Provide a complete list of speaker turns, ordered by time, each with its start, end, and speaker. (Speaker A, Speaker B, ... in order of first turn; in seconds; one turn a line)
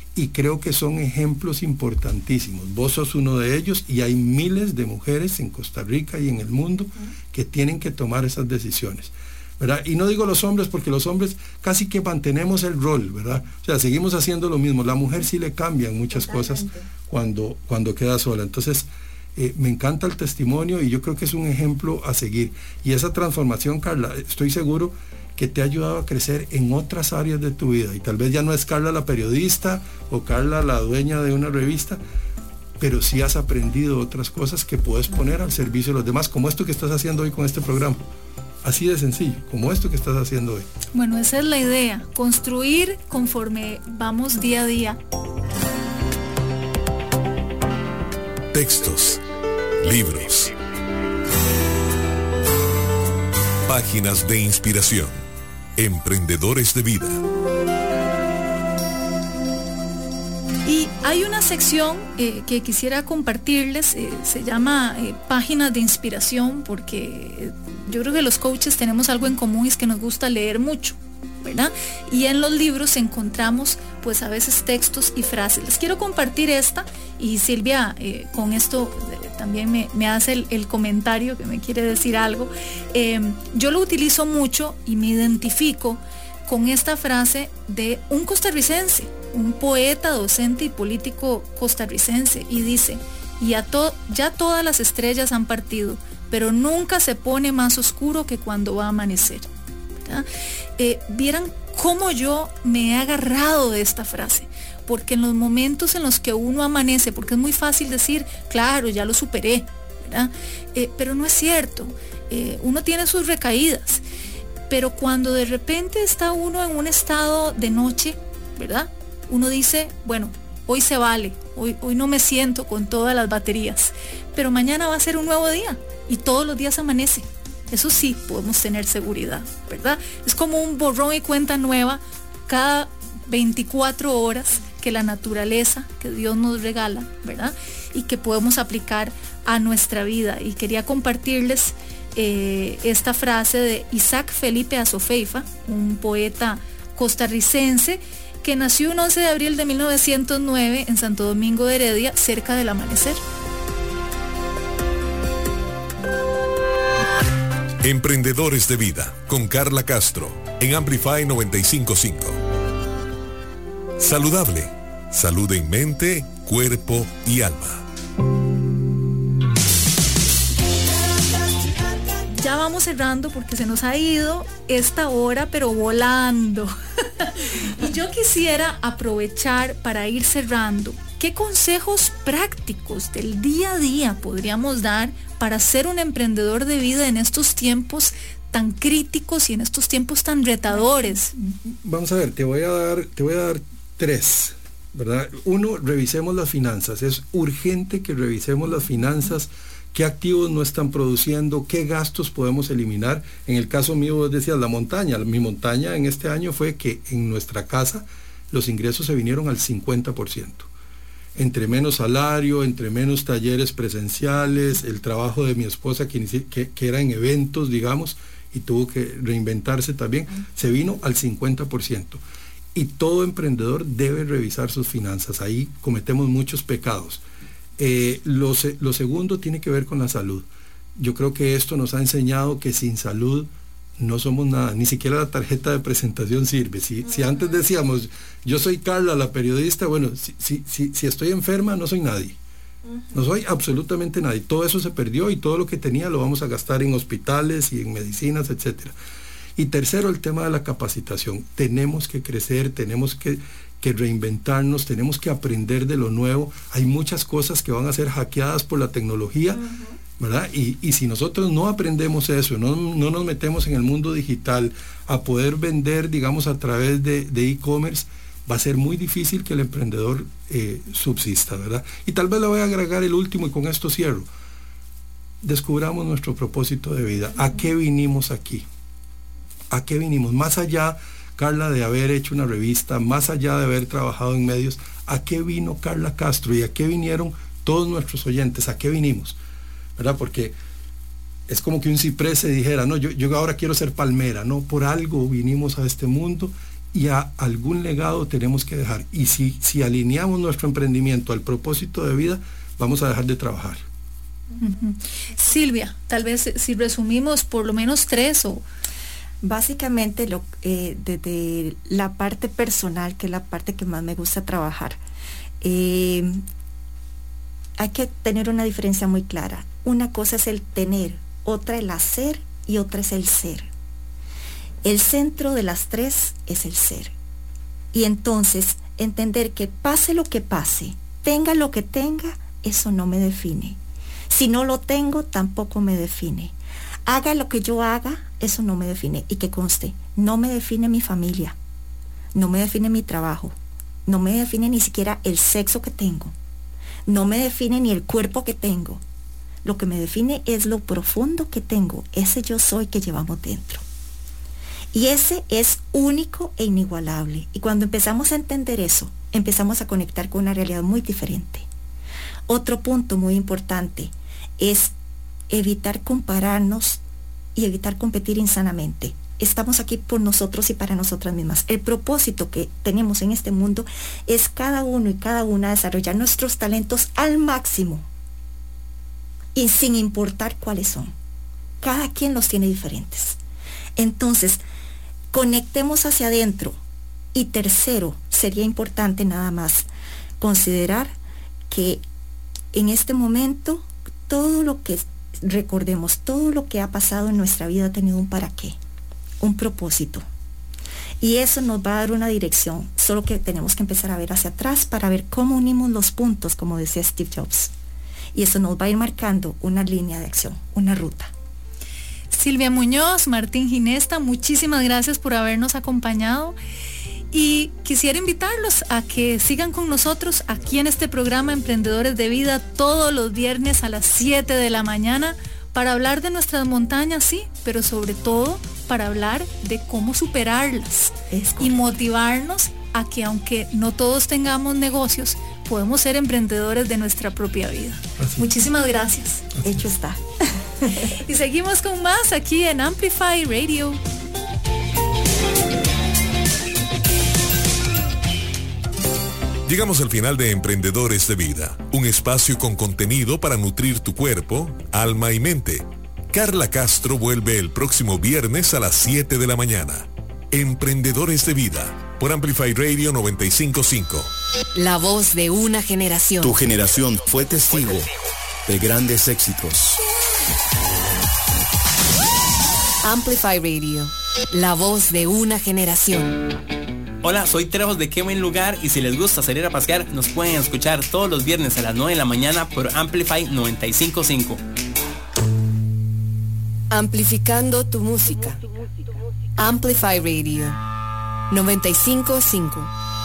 Speaker A: 0.1-32.0
Speaker A: 32.8-38.0
Speaker A: 38.6-40.7
Speaker B: 40.9-45.0
Speaker C: 48.5-49.2
Speaker C: 49.8-50.5
Speaker C: 53.6-55.1
Speaker C: 55.8-57.2
Speaker B: 60.6-99.5
Speaker B: 100.8-114.0
Speaker B: 114.7-153.2
Speaker C: 157.8-162.4
Speaker C: 164.0-167.8
Speaker B: 172.3-191.3
Speaker A: 191.4-210.7
Speaker A: 211.3-222.2
Speaker A: 222.7-227.2
Speaker A: 227.8-230.4
Speaker A: 230.9-242.4
Speaker A: 243.1-248.9
Speaker A: 249.6-274.3
Speaker A: 275.4-278.6
Speaker A: 279.7-289.4
Speaker A: 290.0-290.5
Speaker A: 291.5-303.8
Speaker B: 304.6-308.6
Speaker D: 309.4-315.0
Speaker D: 315.6-316.4
Speaker D: 317.8-323.7
Speaker D: 324.8-327.1
Speaker D: 327.9-336.5
Speaker D: 337.1-341.6
Speaker D: 342.3-343.5
Speaker D: 344.1-346.3
Speaker D: 347.1-349.0
Speaker D: 349.6-353.8
Speaker D: 354.9-361.7
Speaker D: 362.5-364.9
Speaker D: 365.5-367.0
Speaker D: 367.6-378.1
Speaker D: 379.5-381.1
Speaker D: 381.8-383.4
Speaker D: 383.9-384.6
Speaker D: 385.3-386.8
Speaker D: 387.3-391.1
Speaker D: 391.7-392.0
Speaker D: 392.7-398.8
Speaker D: 399.4-400.2
Speaker D: 401.2-407.7
Speaker D: 408.3-411.3
Speaker B: 412.3-416.6
Speaker B: 417.3-439.4
Speaker D: 431.3-431.8
Speaker A: 438.2-438.5
Speaker D: 439.6-441.2
Speaker B: 441.2-444.0
Speaker C: 449.6-464.3
Speaker E: 464.7-466.6
Speaker F: 466.4-468.1
Speaker F: 468.7-470.0
Speaker E: 473.0-476.4
Speaker G: 477.2-484.6
Speaker E: 486.9-488.6
Speaker E: 489.6-490.8
Speaker E: 491.5-492.9